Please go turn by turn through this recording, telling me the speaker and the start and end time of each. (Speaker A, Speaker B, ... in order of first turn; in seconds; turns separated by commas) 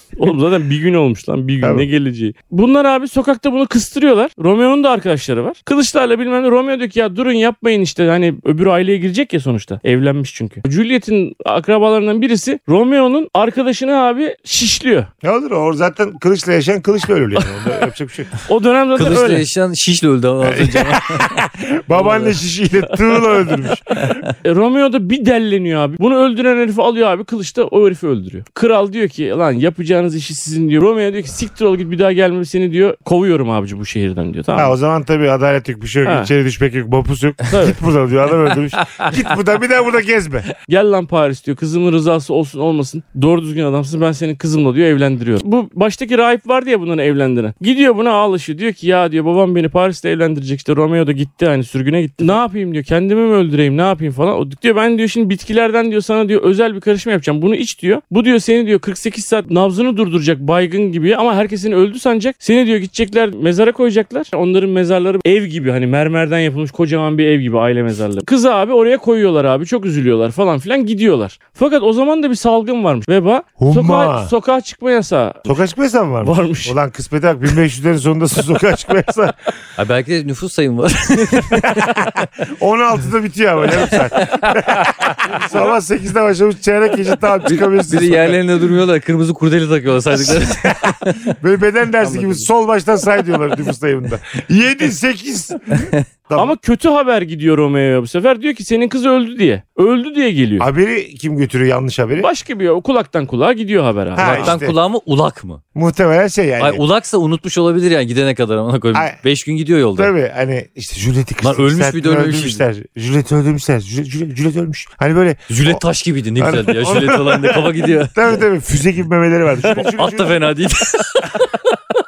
Speaker A: 0.1-15.1, Speaker B: 1.6-1.9, Speaker B: 15.2-18.3, Speaker A: 18.4-19.4, Speaker C: 18.9-21.4, Speaker B: 20.4-24.2, Speaker C: 21.9-22.4, Speaker A: 24.4-34.8, Speaker B: 34.5-40.5, Speaker A: 36.0-36.3, Speaker A: 37.5-37.8, Speaker C: 38.5-39.2, Speaker A: 40.7-75.6, Speaker B: 73.6-74.3, Speaker B: 75.5-79.3, Speaker A: 76.2-76.8, Speaker C: 79.8-82.1, Speaker B: 81.5-88.4, Speaker C: 83.8-85.2, Speaker C: 87.4-91.3, Speaker B: 90.1-96.5, Speaker C: 95.7-96.0, Speaker A: 96.3-100.7, Speaker B: 100.6-102.3, Speaker A: 102.2-104.6, Speaker B: 104.1-104.8, Speaker C: 104.2-105.6, Speaker B: 105.7-106.8, Speaker C: 106.6-110.1, Speaker B: 110.0-115.8, Speaker C: 111.4-112.6, Speaker C: 115.5-118.4, Speaker B: 116.4-120.4, Speaker C: 119.6-121.7